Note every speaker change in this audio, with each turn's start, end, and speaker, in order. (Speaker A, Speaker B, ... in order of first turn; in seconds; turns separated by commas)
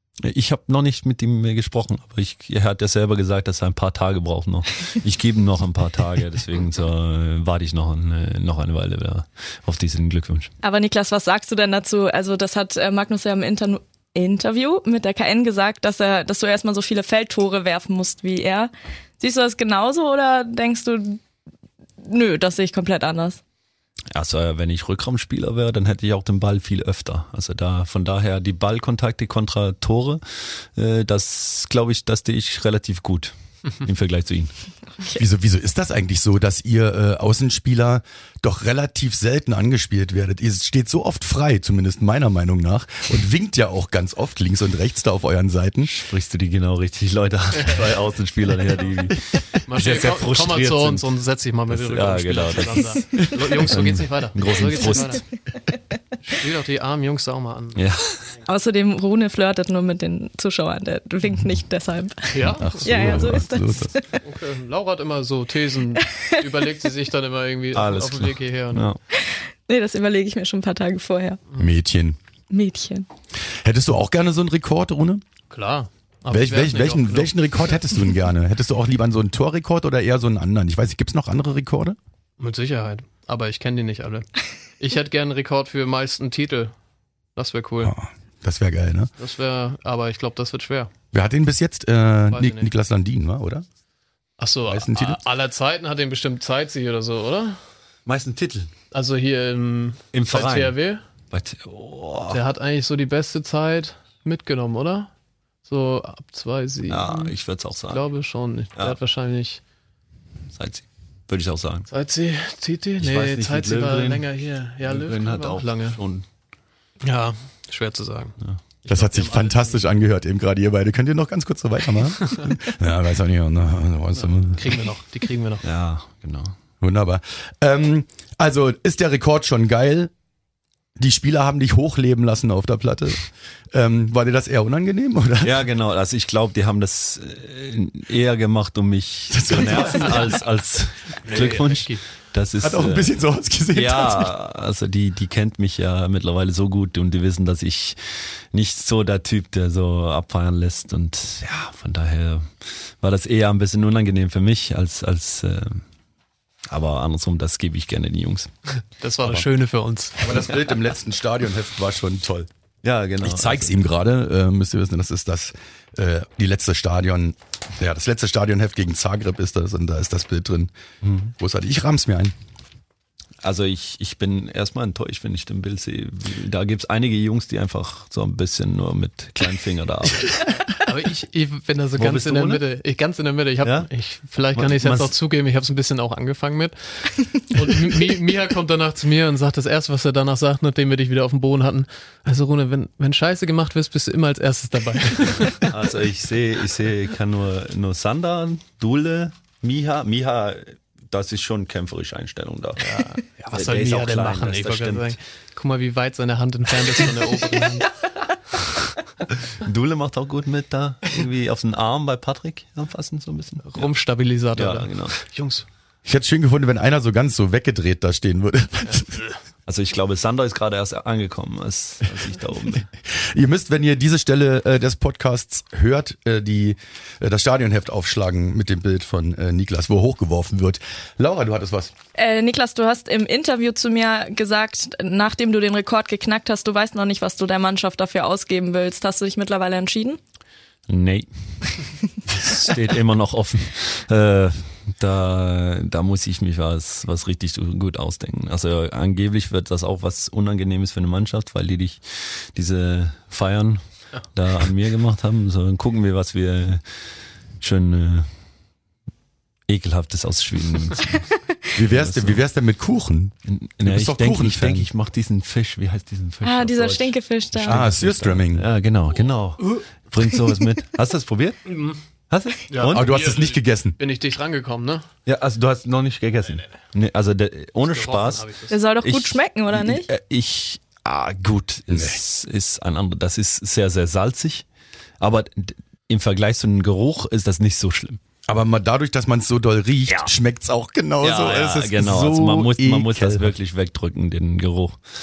Speaker A: 0.2-10.5, Speaker B: 10.6-21.2, Speaker B: 22.0-23.4, Speaker A: 24.1-34.5, Speaker C: 35.1-45.9, Speaker A: 45.8-51.0, Speaker D: 49.7-55.2, Speaker A: 51.7-55.2, Speaker D: 56.2-57.8, Speaker A: 57.7-58.2, Speaker B: 58.5-64.0, Speaker D: 62.3-63.1, Speaker C: 62.6-63.9, Speaker D: 64.2-68.9, Speaker B: 66.0-66.4, Speaker A: 67.7-69.0, Speaker B: 69.2-71.4, Speaker C: 71.6-72.2, Speaker B: 72.5-73.1, Speaker C: 73.6-75.2, Speaker D: 75.5-77.3, Speaker C: 76.3-82.0, Speaker D: 82.4-84.3, Speaker D: 84.8-86.7, Speaker D: 87.3-87.9, Speaker C: 87.8-89.1, Speaker D: 89.2-90.9, Speaker C: 91.1-93.6, Speaker D: 92.3-92.7, Speaker D: 94.4-97.6, Speaker C: 94.7-95.2, Speaker A: 98.0-98.7, Speaker D: 98.9-101.0, Speaker A: 100.1-100.8, Speaker A: 101.3-102.4, Speaker D: 102.3-105.1, Speaker D: 105.7-107.3, Speaker A: 106.9-108.0, Speaker D: 107.9-109.6, Speaker A: 110.5-111.9, Speaker D: 111.9-116.0, Speaker A: 113.0-114.3, Speaker A: 114.8-116.2, Speaker D: 117.0-119.8, Speaker C: 118.9-124.8, Speaker D: 124.2-125.6, Speaker A: 125.6-126.5, Speaker C: 126.8-130.1, Speaker C: 131.0-135.5, Speaker A: 135.4-143.1, Speaker C: 139.3-140.3, Speaker D: 141.2-142.0, Speaker C: 142.6-144.3, Speaker A: 143.7-155.8, Speaker A: 156.7-158.5, Speaker D: 159.0-160.4, Speaker C: 160.2-162.5, Speaker A: 162.8-163.8, Speaker C: 163.2-170.7, Speaker A: 171.0-171.3, Speaker C: 171.3-172.3, Speaker A: 173.4-180.6, Speaker D: 180.8-195.7, Speaker A: 182.0-182.6, Speaker A: 183.6-185.1, Speaker A: 195.6-203.0, Speaker D: 202.8-207.9, Speaker A: 203.5-205.2, Speaker A: 209.4-213.9, Speaker D: 213.6-215.7, Speaker A: 214.5-215.2, Speaker C: 216.0-219.2, Speaker A: 219.7-222.9, Speaker C: 223.1-231.9, Speaker B: 232.1-240.2, Speaker A: 240.9-241.3, Speaker A: 242.2-256.8, Speaker A: 257.6-258.3, Speaker A: 259.7-262.4, Speaker C: 261.7-264.9, Speaker A: 263.4-273.1, Speaker B: 266.4-267.9, Speaker C: 267.6-268.7, Speaker D: 271.7-272.0, Speaker D: 272.7-275.1, Speaker C: 272.8-274.0, Speaker A: 275.2-278.5, Speaker D: 277.8-278.7, Speaker B: 278.7-280.1, Speaker A: 279.0-284.6, Speaker C: 281.9-282.2, Speaker A: 285.2-288.2, Speaker C: 288.5-293.5, Speaker A: 291.2-295.0